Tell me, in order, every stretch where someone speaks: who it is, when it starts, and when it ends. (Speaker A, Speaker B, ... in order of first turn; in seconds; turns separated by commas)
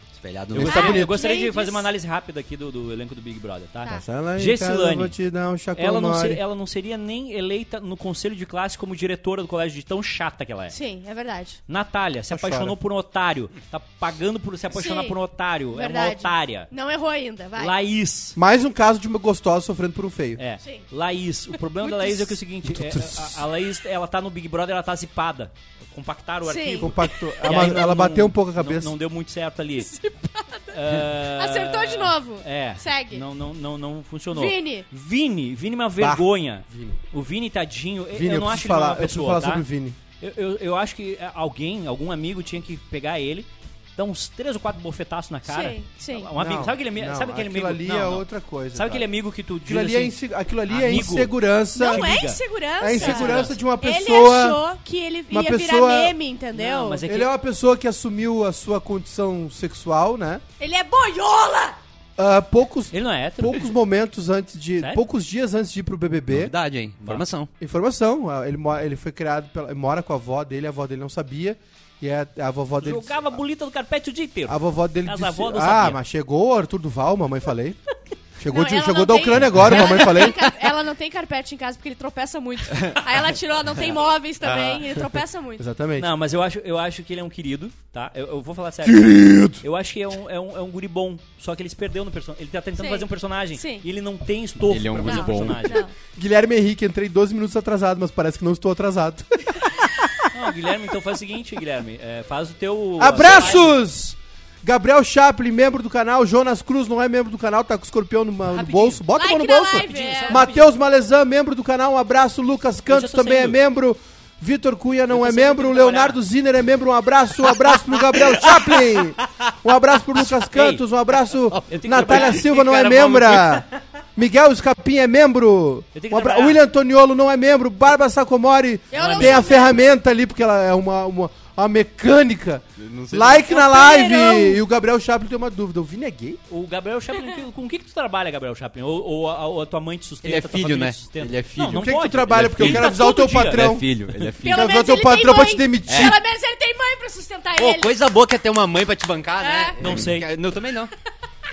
Speaker A: 0.2-0.9, Speaker B: 0.5-5.1, Speaker C: 0.5-1.2, Speaker D: 0.6-1.8, Speaker C: 3.9-6.4, Speaker B: 5.8-10.7, Speaker D: 10.7-11.6, Speaker B: 11.7-16.7, Speaker C: 12.3-12.7, Speaker D: 14.7-15.2, Speaker D: 15.7-17.7, Speaker B: 17.6-18.4, Speaker C: 18.4-20.4, Speaker B: 20.4-29.9, Speaker D: 21.8-22.4, Speaker C: 22.6-23.3, Speaker D: 26.4-27.2, Speaker C: 26.7-28.9, Speaker D: 29.8-33.2, Speaker B: 30.7-39.7, Speaker D: 34.3-34.9, Speaker C: 36.0-37.0, Speaker C: 38.1-40.0, Speaker B: 40.2-50.1, Speaker D: 45.5-46.3, Speaker C: 46.4-49.1, Speaker C: 49.6-52.1, Speaker B: 50.7-53.6, Speaker D: 51.8-57.0, Speaker C: 52.8-54.6, Speaker C: 55.3-56.1, Speaker B: 56.5-57.3, Speaker C: 57.0-60.4, Speaker D: 60.6-61.8, Speaker C: 62.2-66.5, Speaker B: 62.9-63.7, Speaker A: 66.3-67.5, Speaker C: 67.6-73.4, Speaker B: 72.8-76.0, Speaker C: 74.5-77.8, Speaker C: 78.4-80.4, Speaker D: 78.5-85.6, Speaker B: 84.4-84.8, Speaker C: 85.6-86.1, Speaker B: 86.0-95.8, Speaker C: 88.8-89.6, Speaker D: 92.8-93.8, Speaker A: 94.7-95.8, Speaker D: 95.0-95.9, Speaker C: 96.1-100.1, Speaker B: 100.3-103.8, Speaker C: 103.0-136.4, Speaker B: 108.5-109.0, Speaker D: 109.2-110.4, Speaker B: 109.7-110.7, Speaker B: 112.8-113.6, Speaker B: 115.1-116.2, Speaker A: 117.7-119.5, Speaker A: 120.3-120.6, Speaker B: 120.5-120.8, Speaker A: 121.5-123.6, Speaker B: 121.6-122.9, Speaker B: 125.9-126.6, Speaker D: 128.9-129.9, Speaker B: 128.9-129.6, Speaker A: 132.8-133.5, Speaker D: 133.5-134.6, Speaker B: 136.5-144.3, Speaker D: 137.1-137.4, Speaker A: 140.2-142.9, Speaker C: 141.7-143.9, Speaker A: 143.4-144.6, Speaker C: 144.4-146.2, Speaker D: 144.4-147.9, Speaker A: 145.9-146.2, Speaker A: 147.6-150.9, Speaker D: 149.4-149.8, Speaker B: 149.8-150.3